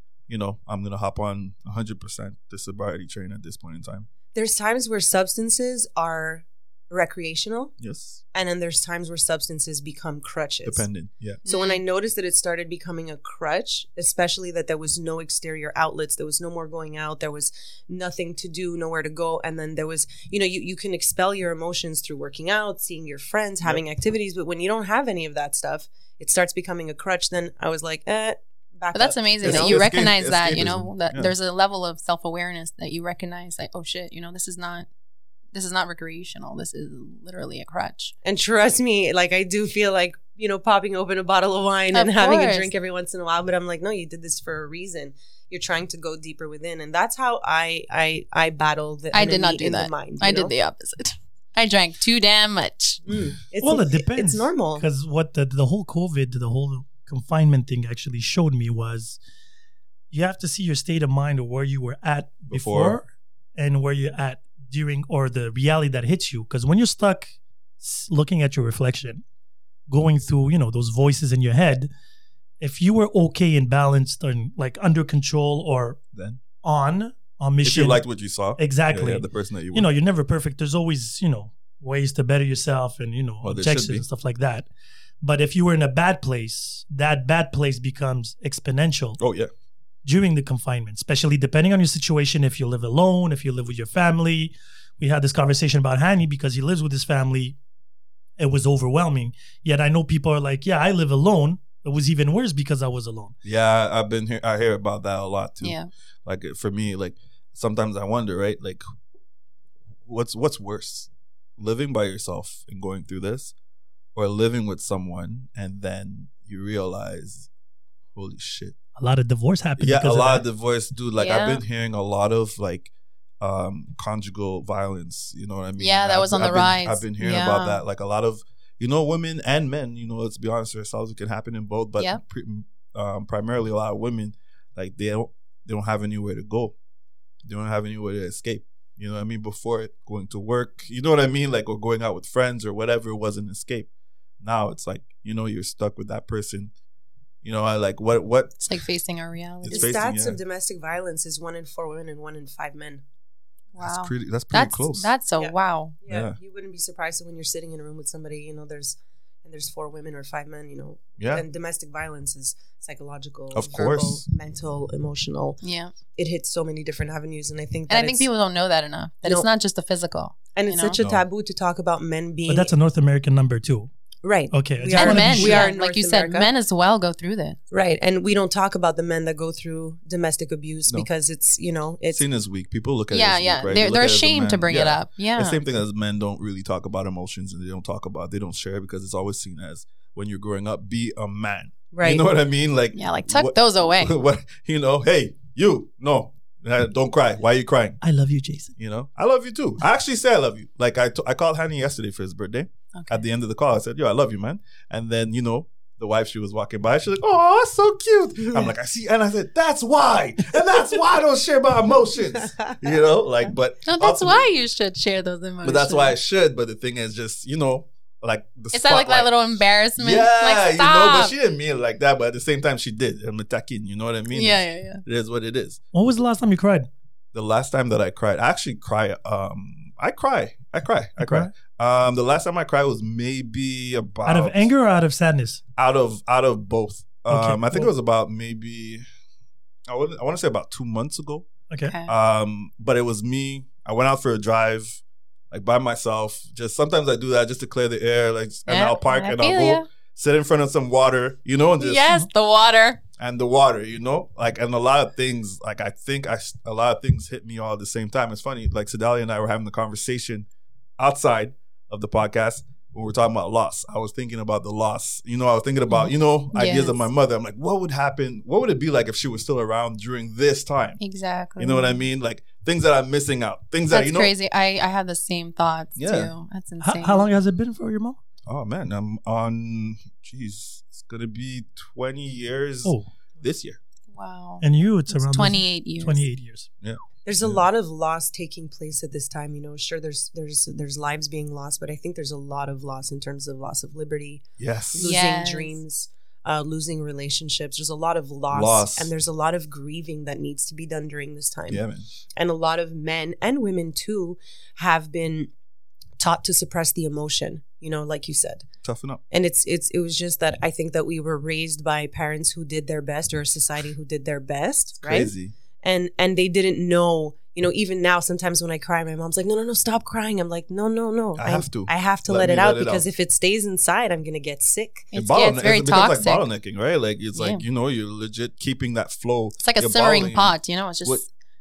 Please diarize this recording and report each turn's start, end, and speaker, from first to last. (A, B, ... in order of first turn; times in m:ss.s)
0:00.3-0:04.1 A
0:04.3-0:07.7 B
0:07.8-0:08.2 A
0:08.3-0:10.8 B
0:10.6-0:11.4 A
0:11.4-0:11.8 C
0:11.5-0:29.8 B
0:28.9-0:34.9 C
0:29.4-0:31.3 A
0:35.5-0:38.1 C
0:38.2-0:50.5 B
0:41.9-0:42.7 C
0:49.1-0:53.0 C
0:53.1-0:54.8 B
0:53.6-0:59.2 D
1:00.1-1:03.0 D
1:02.5-1:03.0 A
1:03.6-1:09.2 D
1:09.9-1:11.9 D
1:12.6-1:16.0 D
1:16.1-1:16.4 A
1:16.6-1:18.0 D
1:17.6-1:19.9 A
1:18.6-1:24.7 D
1:23.4-1:24.1 A
1:25.2-1:29.2 D
1:29.2-1:29.5 A
1:30.0-1:37.6 D
1:38.4-1:43.3 D
1:43.4-1:45.8 A
1:45.6-1:45.9 C
1:46.3-1:48.8 A
1:50.1-1:53.5 A
1:54.2-1:57.5 A
1:58.1-1:58.8 A
1:59.0-2:00.4 D
1:59.8-2:16.8 A
2:01.2-2:01.6 C
2:05.8-2:07.8 C
2:17.4-2:23.9 A
2:24.4-2:26.7 A
2:27.4-2:28.6 A
2:28.6-2:30.0 C
2:29.6-2:30.4 A
2:29.7-2:33.0 B
2:33.8-2:36.0 C
2:33.8-2:35.1 A
2:35.4-2:45.6 B
2:36.1-2:36.4 A
2:41.2-2:41.4 A
2:43.5-2:44.2 A
2:45.6-2:45.9 C
2:46.1-2:48.3 B
2:47.9-2:51.0 C
2:50.5-2:52.7 B
2:51.0-2:51.3 A
2:52.5-2:53.9 D
2:54.2-2:56.5 B
2:54.5-2:55.7 D
2:54.9-2:57.6 C
2:57.7-3:02.2 B
3:02.1-3:18.0 A
3:03.1-3:05.6 C
3:11.9-3:12.2 B
3:12.9-3:14.2 C
3:18.0-3:18.7 D
3:18.8-3:34.5 A
3:22.9-3:23.2 C
3:28.4-3:28.7 B
3:32.4-3:32.9 B
3:33.8-3:36.2 C
3:35.6-3:39.3 A
3:38.7-3:41.3 C
3:40.0-3:45.8 A
3:44.3-3:45.0 C
3:45.9-3:46.9 D
3:47.3-3:54.7 A
3:51.2-3:51.5 D
3:54.2-3:55.6 D
3:55.8-3:59.0 A
3:57.3-3:57.9 D
3:59.9-4:01.5 A
4:01.8-4:02.1 C
4:02.1-4:12.1 A
4:08.7-4:09.9 C
4:11.8-4:13.0 C
4:13.2-4:20.5 A
4:21.0-4:31.0 A
4:26.5-4:27.0 C
4:31.0-4:32.0 C
4:31.6-4:34.3 A
4:33.9-4:37.3 C
4:36.0-4:36.3 A
4:36.8-4:38.2 D
4:38.5-4:43.8 A
4:44.1-4:46.2 C
4:44.6-4:46.7 D
4:46.8-4:47.6 A
4:47.2-5:01.8 B
4:54.6-4:55.1 A
4:55.0-4:55.8 C
4:58.5-4:59.1 A
5:01.7-5:02.1 A
5:02.4-5:05.5 B
5:06.2-5:08.7 B
5:08.8-5:09.2 A
5:09.3-5:25.1 B
5:15.0-5:15.5 A
5:21.4-5:23.1 A
5:25.1-5:26.5 C
5:25.1-5:30.5 A
5:27.4-5:27.6 C
5:29.6-5:31.3 C